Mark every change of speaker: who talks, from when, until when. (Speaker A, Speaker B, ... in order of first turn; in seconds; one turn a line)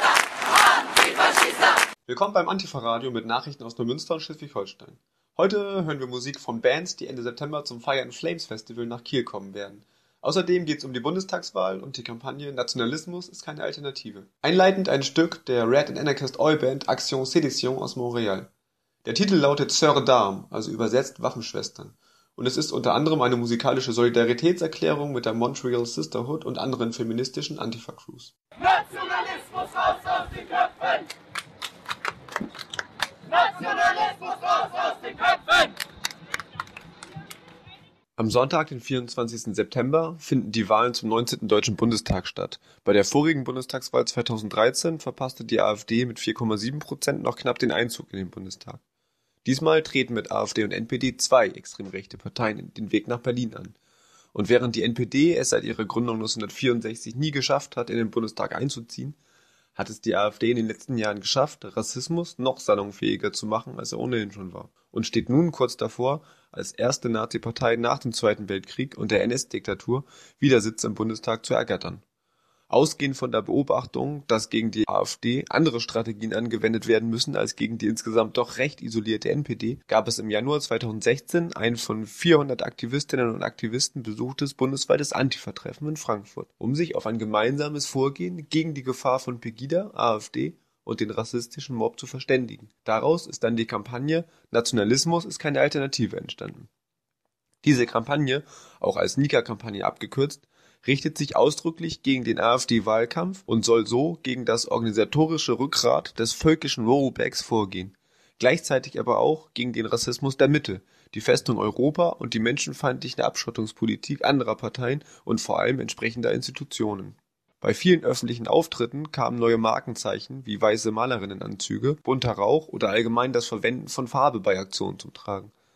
Speaker A: 2.1-18.5
Speaker A: 19.1-28.3
Speaker A: 38.2-48.8
Speaker A: 49.5-53.8
Speaker A: 54.3-59.2
Speaker A: 59.8-72.0
Speaker A: 72.7-96.7
Speaker A: 97.6-125.5